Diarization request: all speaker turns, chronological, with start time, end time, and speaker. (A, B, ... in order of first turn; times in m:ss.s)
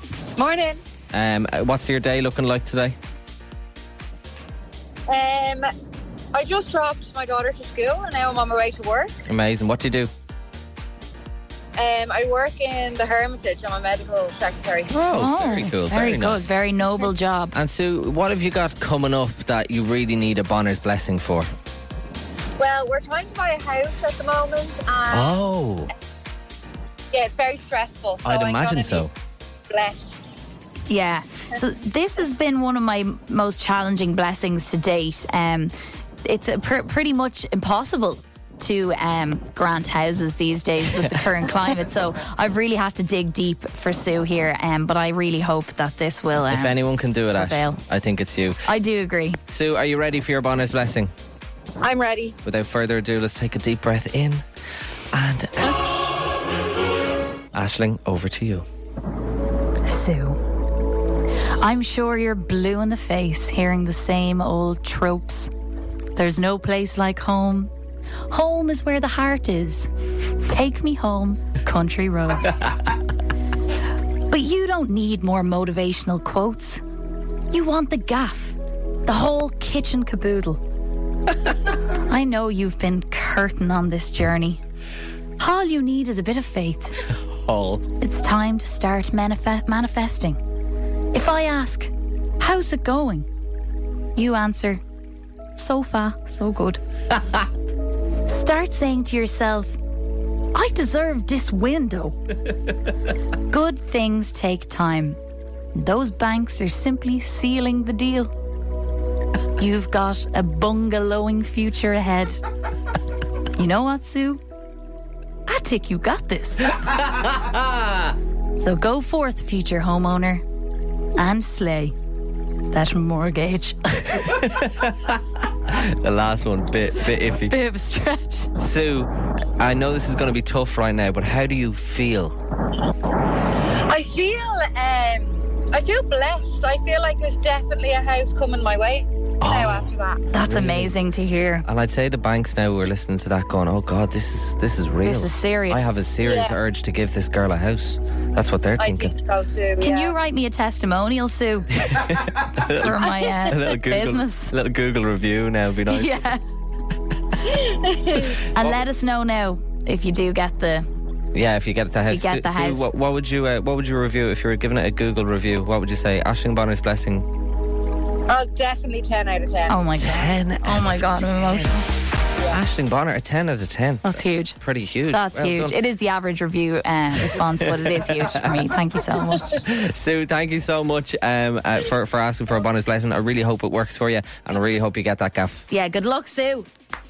0:00.4-0:00.8 A
0:01.1-0:03.0 B
0:05.1-0:05.7 A
0:06.3-0:09.1 A
0:09.2-0:10.1 B
0:11.8-0:14.9 A
0:14.9-0:16.5 B
0:15.1-0:17.5 C
0:17.5-0:21.5 B
0:22.6-0:25.4 A
0:25.1-0:25.9 B
0:27.1-0:29.1 A
0:28.2-0:29.1 B
0:29.7-0:30.4 A
0:30.9-0:35.7 C
0:36.2-0:47.8 C
0:46.5-0:48.6 B
0:48.6-0:49.4 C
0:49.5-0:51.1 B
0:51.8-0:52.4 A
0:52.4-0:54.4 B
0:55.1-0:56.1 B
0:57.5-0:58.6 B
0:59.8-1:00.4 C
1:01.6-1:05.5 C
1:06.2-1:07.7 C
1:08.3-1:12.6 C
1:14.3-1:16.8 C
1:17.5-1:20.6 C
1:21.8-1:24.6 C
1:25.4-1:27.0 C
1:27.1-1:27.8 B
1:28.0-1:30.4 C
1:31.1-1:33.3 C
1:34.2-1:34.8 C
1:35.5-1:36.8 C
1:38.2-1:39.8 C
1:40.5-1:42.2 C
1:43.5-1:45.2 C
1:45.7-1:48.3 C
1:49.6-1:52.4 C
1:53.6-1:54.4 C
1:55.5-1:57.0 C
1:57.4-1:58.0 B
1:58.6-2:00.4 C
2:01.1-2:01.9 C
2:02.7-2:04.5 C
2:04.2-2:07.6 B
2:07.4-2:08.5 C
2:08.6-2:12.4 B
2:13.9-2:20.2 A
2:19.4-2:20.9 B
2:20.3-2:21.6 C
2:21.6-2:29.1 B
2:25.0-2:25.9 C
2:26.2-2:26.6 A
2:28.8-2:30.2 A
2:29.8-2:31.9 C
2:31.8-2:36.3 B
2:32.8-2:34.5 C
2:35.9-2:36.4 C
2:37.4-2:38.4 A
2:38.4-2:40.9 C
2:41.3-2:47.3 B
2:42.1-2:42.9 C
2:48.3-2:49.9 A
2:49.7-2:51.9 C
2:50.0-2:51.8 B
2:52.5-2:55.8 B
2:54.0-2:59.6 C
2:57.2-3:05.7 B
3:05.7-3:06.7 C